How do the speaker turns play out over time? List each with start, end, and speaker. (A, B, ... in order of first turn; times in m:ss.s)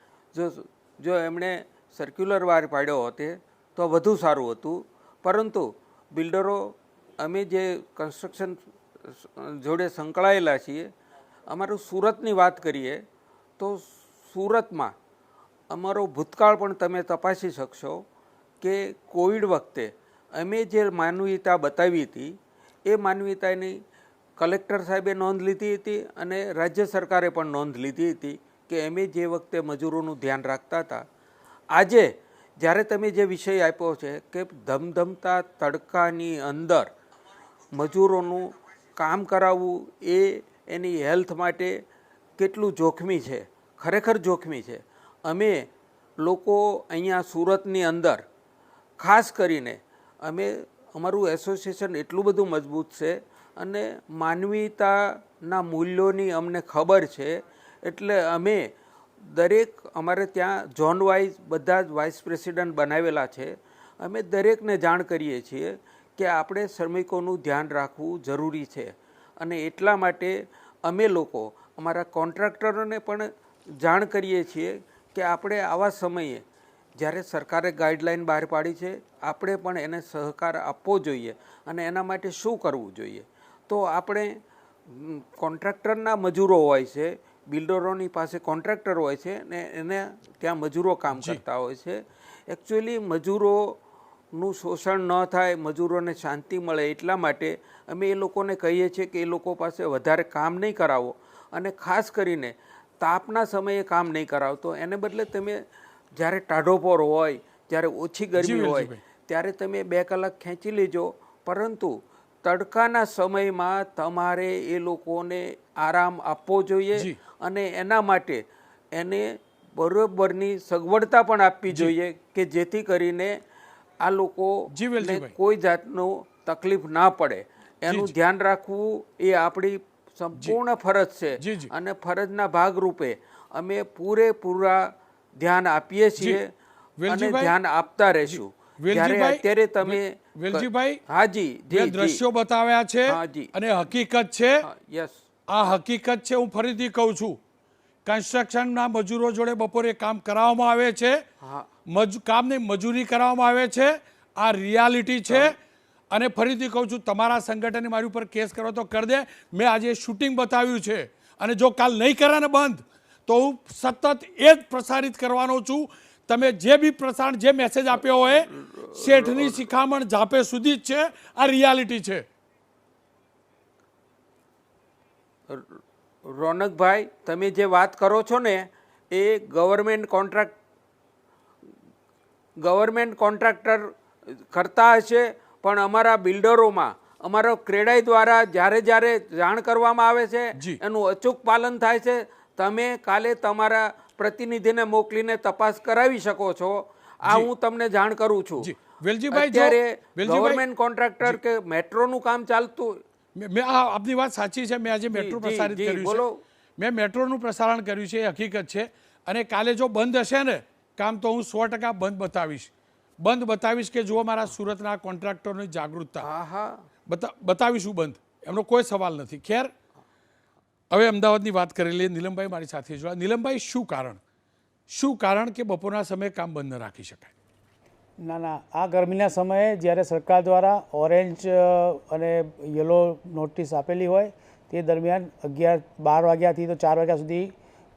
0:00.3-0:10.9 A
0:11.5-0:13.0 A
0:13.6-0:14.9 A
0:15.7-0:18.0 A
0:18.6-0:22.3 A
0:22.9-0:23.8 A
0:24.4-0:31.0 A
0:31.7-0:36.9 A
0:37.7-0:41.8 A
0:42.4-0:45.7 A
0:46.2-0:48.2 A
0:49.0-0:58.7 A
0:59.2-1:16.4 A
1:17.0-1:33.8 A
1:31.2-1:31.4 B
1:34.3-1:45.6 A
1:46.1-1:58.4 A
1:48.4-1:49.0 B
1:59.0-2:03.4 A
2:04.0-2:16.5 A
2:04.7-2:05.3 B
2:07.9-2:08.1 B
2:11.4-2:11.7 B
2:17.0-2:17.5 B
2:17.1-2:22.2 A
2:18.2-2:21.0 B
2:21.7-2:24.7 B
2:23.1-2:23.5 A
2:24.6-2:25.2 A
2:25.5-2:27.4 B
2:28.0-2:31.2 B
2:31.4-2:31.7 A
2:31.9-2:35.6 B
2:35.3-2:35.6 A
2:36.1-2:52.2 B
2:48.0-2:49.7 A
2:55.5-3:00.5 A
3:02.6-3:18.7 A
3:18.6-3:20.6 B
3:19.3-3:23.0 A
3:23.4-3:26.2 B
3:25.1-3:26.4 A
3:26.8-3:36.3 B
3:36.2-3:36.8 A
3:37.1-3:39.7 B
3:40.9-3:44.2 B
3:44.9-3:47.3 B
3:48.2-3:57.5 C